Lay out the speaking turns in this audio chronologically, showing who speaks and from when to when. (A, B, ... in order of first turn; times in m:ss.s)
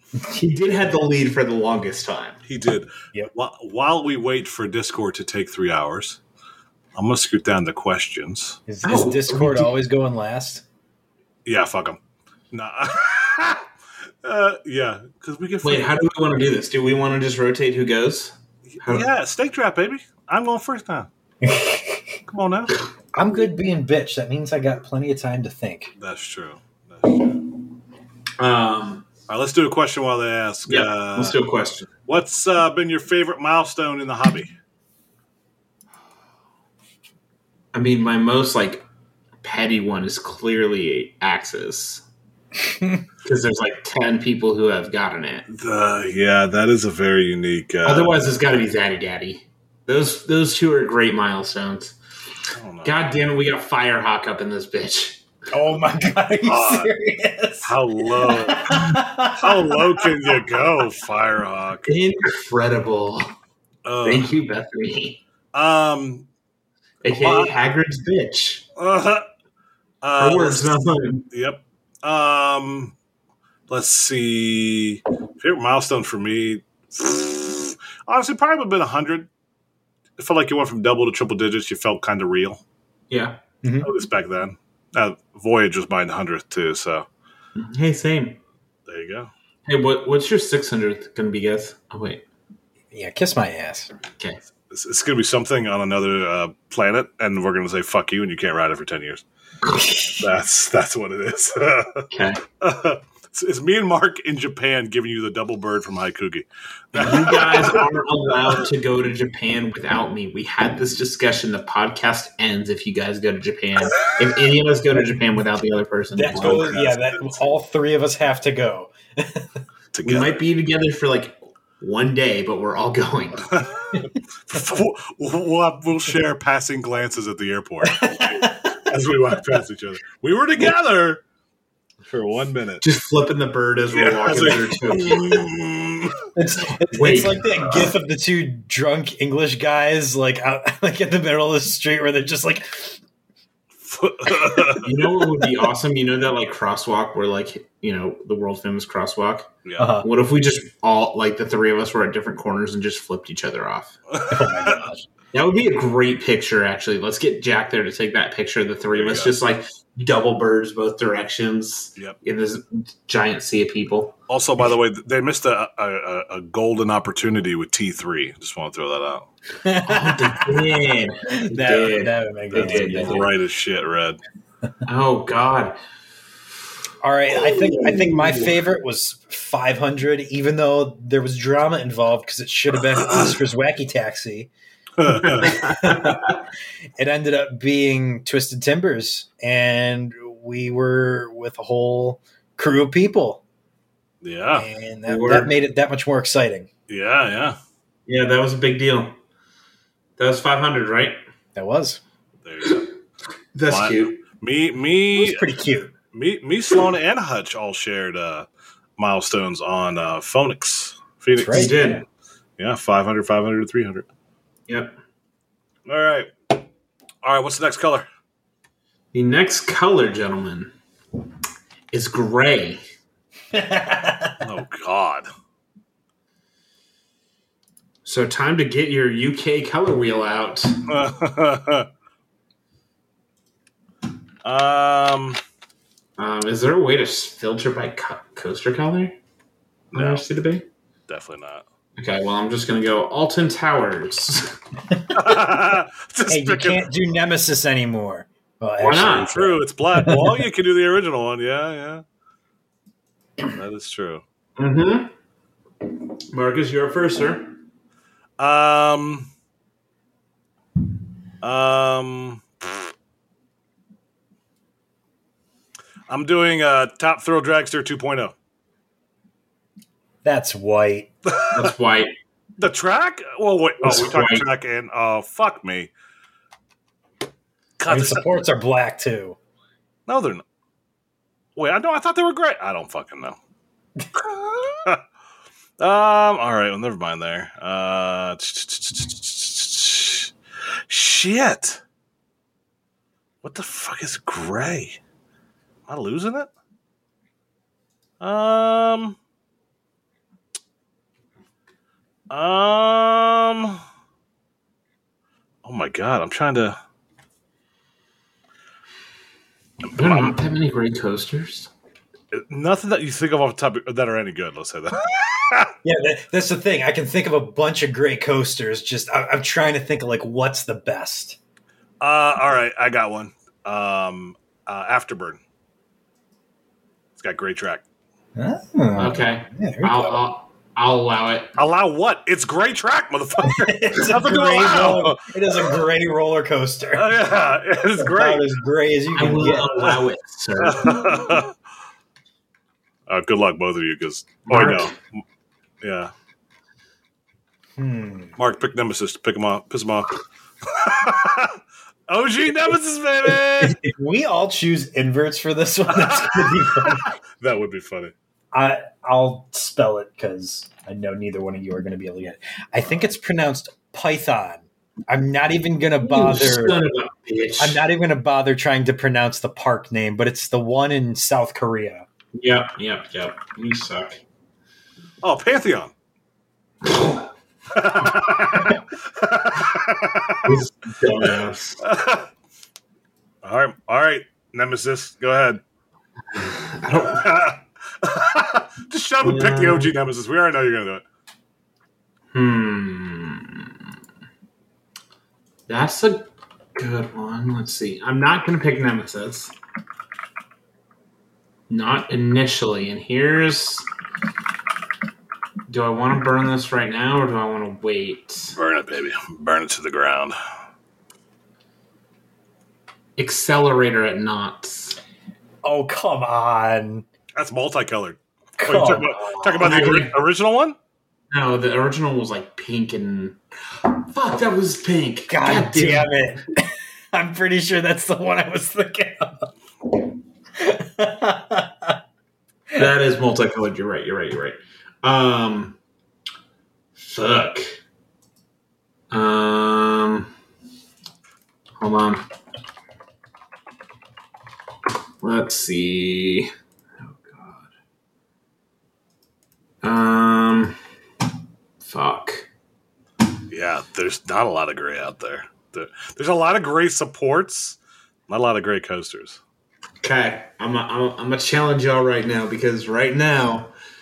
0:00.2-0:02.4 A
0:02.4-0:06.2 B
0:06.9-0:08.6 B
0:08.7-0:10.6 C
0:08.8-0:09.7 A
0:11.4-0:12.0 B
0:12.5-0:13.6 B
0:14.2-0:16.0 B
0:15.6-0:19.0 A
0:18.7-0:21.1 B
0:21.4-0:22.0 C
0:22.3-0:22.7 B
0:23.1-0:25.9 C
0:26.0-0:27.4 B
0:28.4-0:29.0 A
0:29.3-0:31.4 B
0:30.7-0:31.9 A
0:32.1-0:34.5 B
0:37.7-0:38.8 A
0:39.4-0:42.0 A
0:42.7-0:43.0 C
0:43.2-0:45.5 A
0:45.5-0:48.2 B
0:47.8-0:51.9 A
0:52.5-0:52.9 B
0:52.8-0:55.2 A
0:55.5-1:00.4 C
0:56.4-0:56.9 B
0:57.6-1:01.9 B
1:01.8-1:03.3 A
1:03.8-1:04.3 B
1:04.0-1:05.2 A
1:05.5-1:06.3 B
1:07.0-1:08.6 A
1:07.1-1:07.5 B
1:08.8-1:09.3 B
1:10.0-1:12.9 B
1:10.2-1:11.2 A
1:13.7-1:19.3 B
1:20.2-1:22.6 B
1:23.1-1:23.4 A
1:23.6-1:23.9 C
1:23.8-1:27.1 B
1:27.6-1:28.4 A
1:28.9-1:29.3 B
1:29.6-1:32.2 A
1:32.9-1:33.9 C
1:34.7-1:39.2 B
1:39.8-1:40.2 C
1:40.2-1:47.8 B
1:42.1-1:42.4 A
1:46.9-1:56.8 A
1:56.1-1:59.5 C
1:56.3-1:57.4 B
1:59.9-2:00.4 B
2:00.0-2:03.5 A
2:03.5-2:11.2 B
2:07.8-2:08.9 C
2:12.0-2:12.8 B
2:12.8-2:15.5 A
2:13.9-2:16.2 B
2:16.3-2:23.0 C
2:17.0-2:17.9 A
2:23.8-2:24.9 B
2:24.5-2:24.8 C
2:24.8-2:33.9 A
2:29.6-2:29.9 B
2:29.8-2:30.1 C
2:34.1-2:34.8 B
2:34.3-2:35.0 C
2:35.3-2:44.2 A
2:38.9-2:39.3 B
2:44.3-2:49.3 B
2:49.6-2:50.5 C
2:49.8-2:53.3 A
2:51.3-2:53.2 C
2:52.5-2:54.2 B
2:54.8-2:55.8 A
2:57.0-3:04.5 C
2:57.3-2:58.6 A
3:03.0-3:03.3 B
3:05.0-3:05.6 B
3:05.2-3:06.2 A
3:05.4-3:06.3 C
3:07.0-3:13.4 C
3:14.2-3:14.7 B
3:14.5-3:16.7 C
3:15.1-3:15.5 A
3:16.9-3:17.6 B
3:18.1-3:19.1 A
3:20.2-3:21.2 A
3:21.6-3:22.0 C
3:22.4-3:22.8 B
3:23.5-3:24.2 A
3:23.7-3:25.4 B
3:25.1-3:25.9 C
3:26.1-3:31.8 B
3:31.4-3:32.0 C
3:31.5-3:32.0 A
3:32.6-3:34.1 B
3:34.7-3:34.9 A
3:35.8-3:36.3 B
3:37.2-3:38.0 B
3:39.1-3:40.7 A
3:41.9-3:42.8 A
3:43.5-3:44.4 C
3:44.4-3:45.3 B
3:48.0-3:50.8 A
3:50.9-3:51.9 B
3:54.4-3:55.4 B
3:56.2-3:59.2 A
3:59.9-4:00.6 A
3:59.9-4:00.2 B
4:01.1-4:01.6 B
4:02.0-4:04.5 A
4:05.1-4:06.8 B
4:06.3-4:10.4 C
4:08.8-4:09.4 A
4:09.3-4:12.0 B
4:13.5-4:14.2 B
4:14.6-4:15.1 A
4:16.3-4:17.6 A
4:18.4-4:19.3 B
4:21.4-4:22.9 B
4:26.1-4:28.3 B
4:30.2-4:31.1 C
4:31.2-4:31.7 B
4:31.5-4:32.1 A
4:32.6-4:35.9 B
4:33.8-4:34.4 A
4:37.8-4:38.4 B
4:37.9-4:39.4 C
4:40.1-4:40.4 B
4:41.6-4:43.4 B
4:44.2-4:45.0 B
4:45.8-4:50.3 B
4:50.9-4:51.8 B
4:53.4-4:55.0 B
4:55.9-4:56.5 B
4:58.2-4:59.2 B
5:02.3-5:03.8 B
5:05.6-5:06.8 B
5:09.8-5:10.4 B
5:09.9-5:11.7 A
5:12.3-5:15.7 B
5:15.8-5:21.4 C
5:22.0-5:25.4 B
5:27.2-5:27.8 B
5:28.4-5:30.2 C
5:29.0-5:31.5 A
5:31.6-5:35.8 B
5:33.4-5:37.1 C
5:36.9-5:38.4 B
5:38.0-5:40.0 C
5:39.1-5:41.1 A
5:40.6-5:41.5 B
5:43.1-5:45.0 B
5:44.4-5:44.9 A
5:45.8-5:46.1 B
5:47.8-5:48.4 C
5:48.4-5:50.1 B
5:50.6-5:53.8 B
5:53.6-5:57.1 C
5:55.9-5:58.1 B
5:58.5-6:06.8 C
6:06.0-6:07.8 A
6:07.6-6:12.0 C
6:12.4-6:14.2 A
6:15.2-6:15.9 B
6:16.9-6:17.2 A
6:17.7-6:20.6 B
6:20.4-6:21.8 A
6:21.2-6:22.3 B
6:23.4-6:25.6 B
6:26.3-6:27.3 A
6:26.9-6:31.0 B
6:29.2-6:29.9 A
6:32.3-6:33.7 A
6:35.7-6:39.5 A
6:41.7-6:43.9 A
6:45.7-6:48.6 A
6:48.6-6:50.4 B
6:53.2-6:55.0 A
6:55.6-6:57.0 C
6:57.3-7:00.8 B
6:58.6-6:59.7 C
6:59.6-7:00.1 A
7:01.3-7:06.2 A
7:05.3-7:09.5 C
7:10.6-7:12.0 C
7:12.7-7:15.8 A
7:17.0-7:17.8 A
7:19.1-7:20.3 A
7:21.8-7:22.2 A
7:25.2-7:26.5 A
7:27.1-7:27.6 A
7:29.8-7:30.8 A
7:31.8-7:32.5 A
7:33.5-7:39.4 B
7:40.0-7:43.7 A